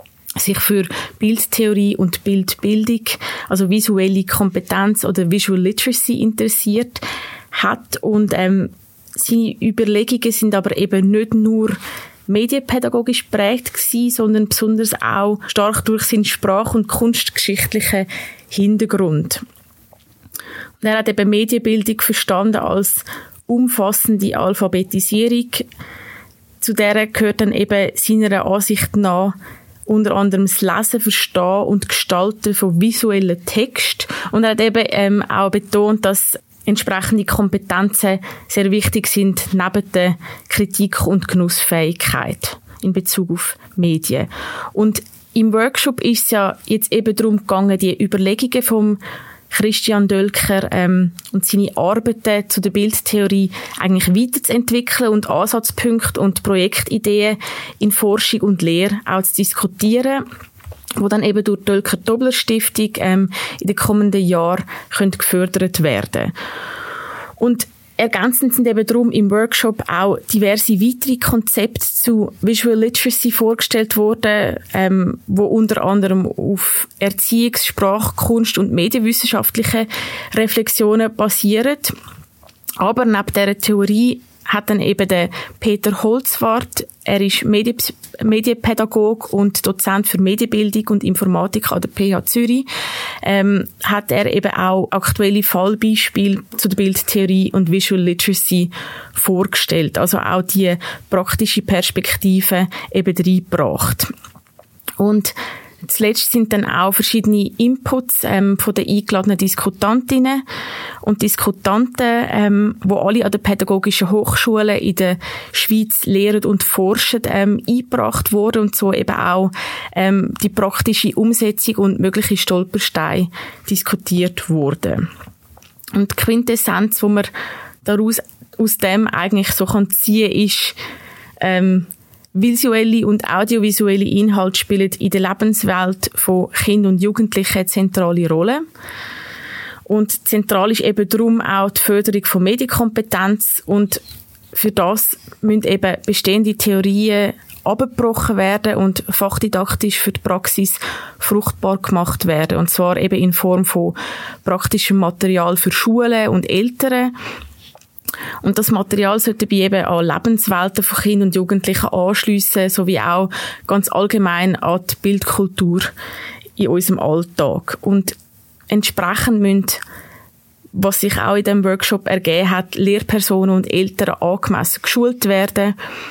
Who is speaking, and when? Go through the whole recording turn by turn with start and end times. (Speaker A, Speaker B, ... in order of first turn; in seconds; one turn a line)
Speaker A: 0.4-19.4
Speaker A: 20.8-25.7
Speaker A: 26.6-29.4
Speaker A: 29.9-49.0
Speaker A: 49.5-60.2
Speaker A: 61.0-66.3
Speaker A: 67.4-82.0
Speaker A: 82.8-92.7
Speaker A: 93.2-104.1
Speaker A: 105.0-110.4
Speaker A: 111.0-125.1
Speaker A: 125.9-127.3
Speaker A: 127.8-130.8
Speaker A: 131.4-138.7
Speaker A: 139.9-144.0
Speaker A: 144.5-157.1
Speaker A: 158.4-165.9
Speaker A: 166.6-168.2
Speaker A: 168.7-169.8
Speaker A: 170.7-175.8